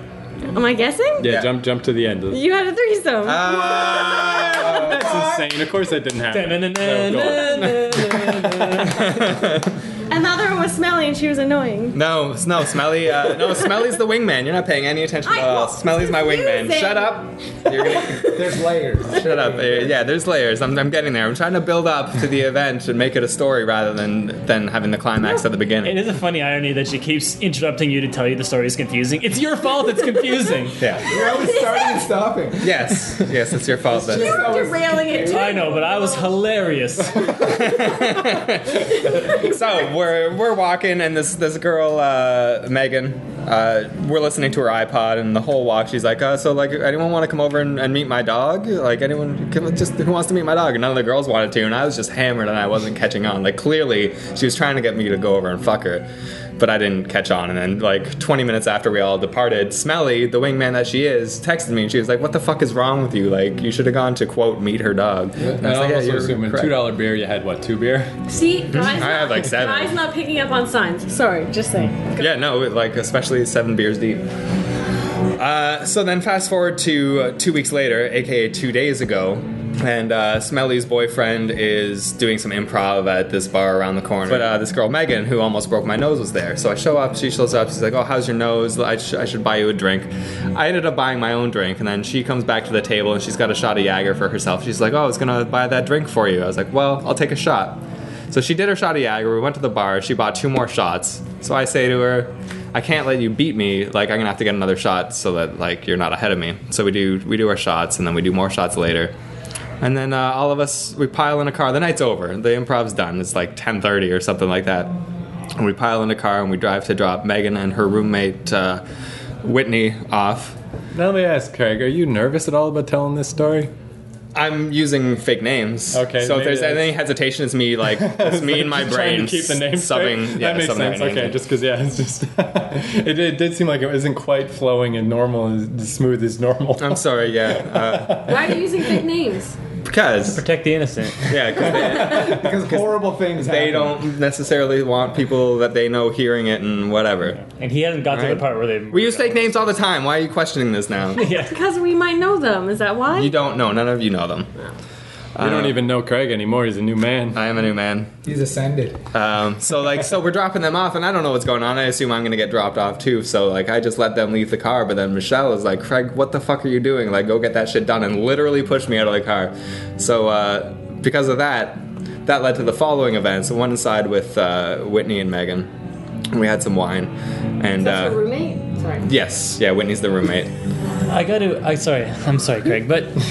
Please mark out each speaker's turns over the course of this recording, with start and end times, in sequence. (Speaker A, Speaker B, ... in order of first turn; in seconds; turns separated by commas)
Speaker A: 0.5-1.3, Speaker B: 1.2-2.4, Speaker C: 1.2-1.5, Speaker A: 2.3-4.8, Speaker C: 3.2-5.0, Speaker D: 3.8-5.5, Speaker B: 4.7-7.9, Speaker E: 6.3-9.0, Speaker A: 7.2-8.3, Speaker C: 8.8-9.8, Speaker A: 10.1-12.0, Speaker C: 11.9-18.4, Speaker A: 15.2-18.4, Speaker D: 18.3-19.9, Speaker C: 19.1-26.0, Speaker E: 25.8-30.8, Speaker C: 30.8-31.1, Speaker D: 31.1-33.2, Speaker A: 31.1-32.0, Speaker C: 32.6-34.6, Speaker D: 33.9-35.7, Speaker A: 34.1-36.3, Speaker E: 35.3-37.3, Speaker C: 37.3-56.1, Speaker A: 39.1-39.5, Speaker C: 56.6-66.8, Speaker B: 65.4-68.1, Speaker A: 68.3-72.3, Speaker C: 68.7-70.0, Speaker C: 72.2-74.2, Speaker C: 75.4-109.1, Speaker C: 109.8-114.9, Speaker C: 115.6-118.8, Speaker C: 119.4-120.6, Speaker B: 120.9-123.7, Speaker C: 124.3-131.4, Speaker B: 125.9-126.9, Speaker B: 127.9-137.0, Speaker C: 136.8-138.6, Speaker B: 137.6-138.4, Speaker A: 138.2-139.6, Speaker C: 139.8-140.4, Speaker E: 140.2-141.3, Speaker C: 141.3-147.4, Speaker D: 141.8-144.1, Speaker E: 147.5-149.7, Speaker C: 148.1-151.2, Speaker E: 151.2-151.6, Speaker A: 151.2-153.4, Speaker C: 153.2-154.5, Speaker C: 155.4-155.8, Speaker B: 155.4-157.4, Speaker C: 157.3-158.1, Speaker D: 158.2-159.0, Speaker C: 159.1-175.7, Speaker C: 176.3-178.2, Speaker A: 177.8-179.1, Speaker C: 179.0-180.5, Speaker E: 181.1-183.2